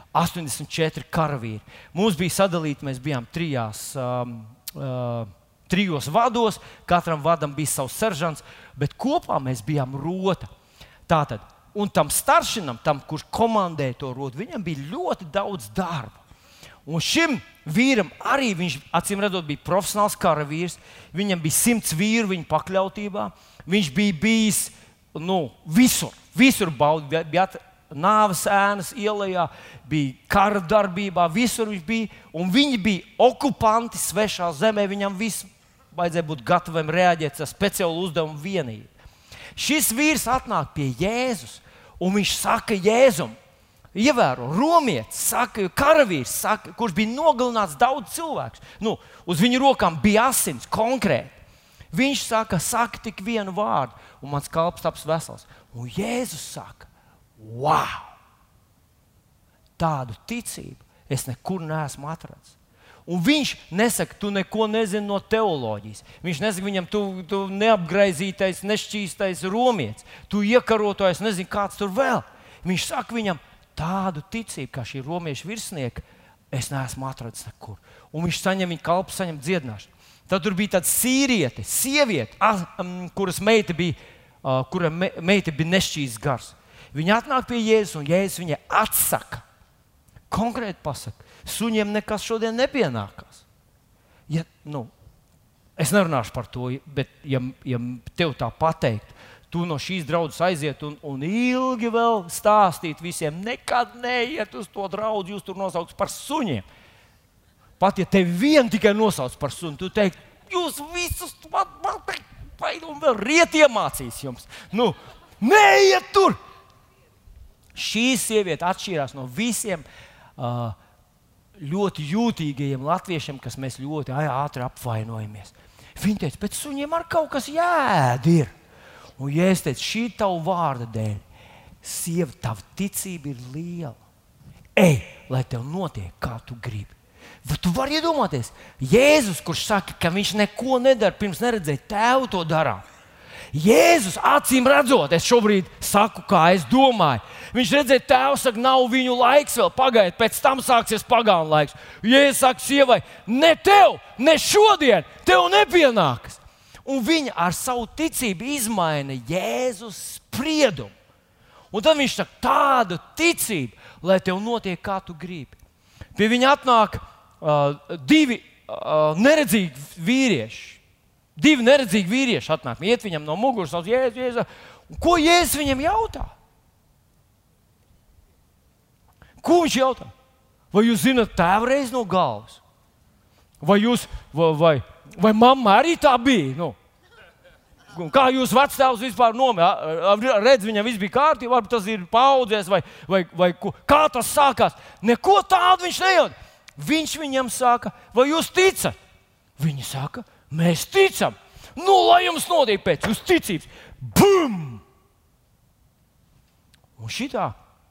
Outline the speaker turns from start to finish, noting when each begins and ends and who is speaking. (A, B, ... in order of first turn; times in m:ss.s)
0:00.1-0:10.5 A
0:11.1-0:16.2 A
0:16.9-0:38.9 A
0:39.6-0:43.4 A
0:43.9-0:51.4 A
0:51.9-0:58.2 A
0:59.8-1:02.6 A
1:03.1-1:29.4 A
1:30.3-1:33.4 A
1:34.3-1:34.9 A
1:35.8-1:46.6 A
1:47.8-1:56.4 A
1:57.8-1:59.8 A
2:00.4-2:00.8 A
2:01.6-2:08.5 A
2:09.2-2:11.2 A
2:11.8-2:14.0 A
2:14.8-2:22.8 A
2:23.5-2:40.9 A
2:41.7-2:45.6 A
2:46.2-2:50.8 A
2:51.4-2:56.3 A
2:59.4-3:00.1 A
3:00.7-3:02.6 A
3:03.6-3:06.8 A
3:07.9-3:19.0 A
3:19.6-3:24.8 A
3:27.0-3:27.6 A